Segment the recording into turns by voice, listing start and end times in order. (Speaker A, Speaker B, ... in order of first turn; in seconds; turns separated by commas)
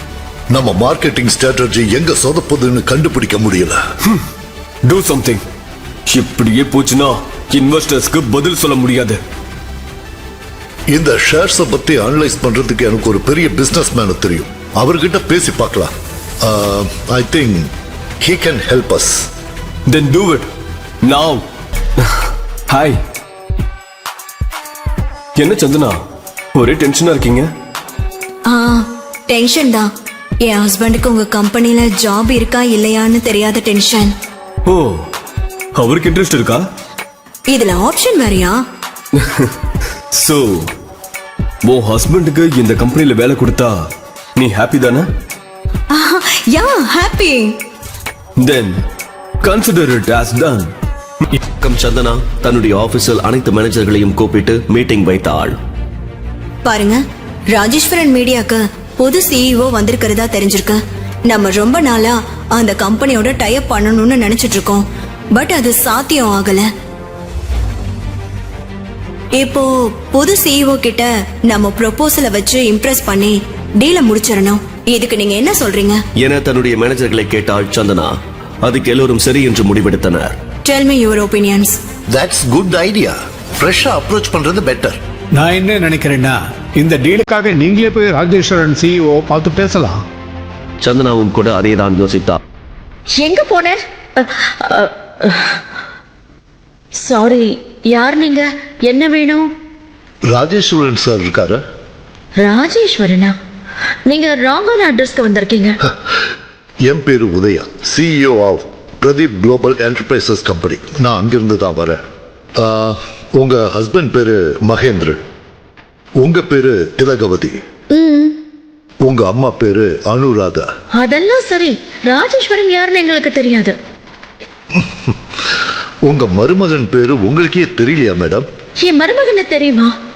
Speaker A: 0.5-3.8, Speaker B: 4.8-5.4, Speaker B: 6.1-9.2, Speaker A: 10.9-17.7, Speaker A: 18.2-19.3, Speaker B: 19.9-20.5, Speaker B: 21.0-21.4, Speaker B: 22.0-23.0, Speaker B: 25.4-26.0, Speaker B: 26.5-27.5, Speaker C: 28.5-29.9, Speaker C: 30.4-34.1, Speaker B: 34.6-35.1, Speaker B: 35.7-36.7, Speaker C: 37.5-38.6, Speaker B: 39.2-39.5, Speaker B: 40.1-40.7, Speaker B: 41.6-45.1, Speaker C: 45.9-47.6, Speaker B: 48.4-48.8, Speaker B: 49.4-50.7, Speaker D: 51.6-55.6, Speaker C: 56.6-66.7, Speaker C: 69.3-76.0, Speaker D: 76.2-80.3, Speaker C: 80.7-81.8, Speaker A: 82.1-85.0, Speaker E: 85.4-90.0, Speaker D: 90.8-92.4, Speaker F: 93.1-95.6, Speaker F: 97.0-99.5, Speaker A: 100.3-101.6, Speaker F: 102.4-103.3, Speaker F: 104.1-105.8, Speaker A: 106.8-112.0, Speaker A: 112.6-115.2, Speaker A: 116.2-117.6, Speaker F: 117.9-118.4, Speaker A: 119.0-120.7, Speaker F: 120.9-123.8, Speaker A: 124.7-125.1, Speaker A: 126.0-128.5, Speaker F: 128.8-129.9